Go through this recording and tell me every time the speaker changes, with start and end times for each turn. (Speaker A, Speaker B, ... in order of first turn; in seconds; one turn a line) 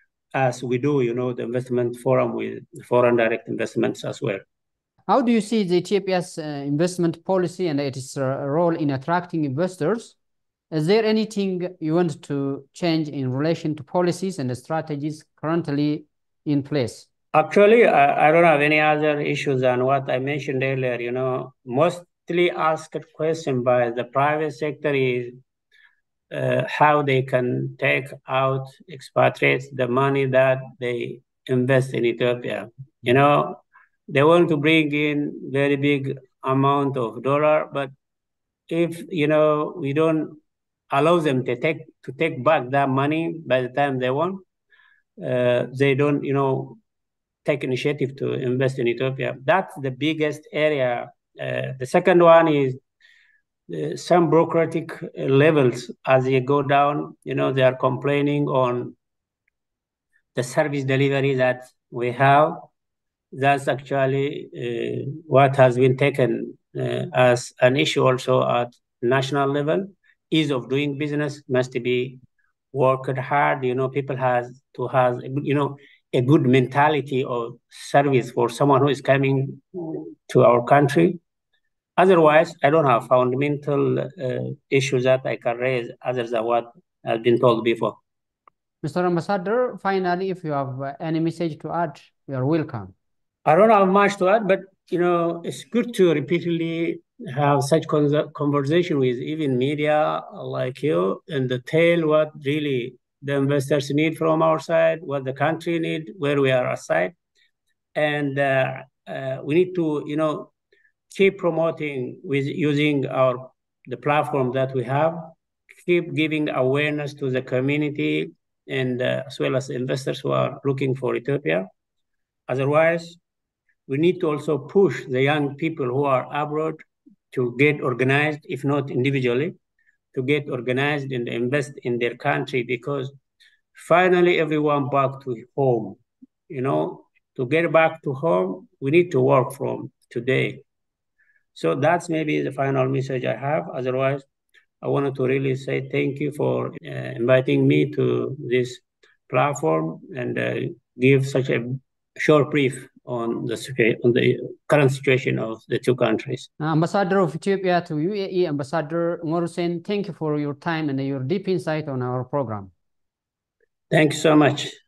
Speaker A: 0.3-4.4
Speaker B: 5.1-10.2
Speaker B: 10.7-17.1
Speaker A: 17.3-25.4
Speaker A: 26.3-37.9
Speaker A: 38.7-40.4
Speaker A: 40.9-44.4
Speaker A: 45.2-46.8
Speaker A: 47.4-52.8
Speaker A: 53.7-59.0
Speaker A: 60.3-62.7
Speaker A: 63.3-72.2
Speaker A: 72.7-81.2
Speaker A: 82.0-88.0
Speaker B: 88.8-92.9
Speaker A: 93.5-107.1
Speaker A: 107.9-110.5
Speaker A: 111.1-121.7
Speaker A: 122.5-123.2
Speaker A: 123.9-129.6
Speaker A: 130.1-133.1
Speaker A: 133.7-136.0
Speaker A: 136.5-140.6
Speaker A: 141.5-144.2
Speaker A: 144.8-156.5
Speaker B: 156.6-162.7
Speaker A: 163.9-164.8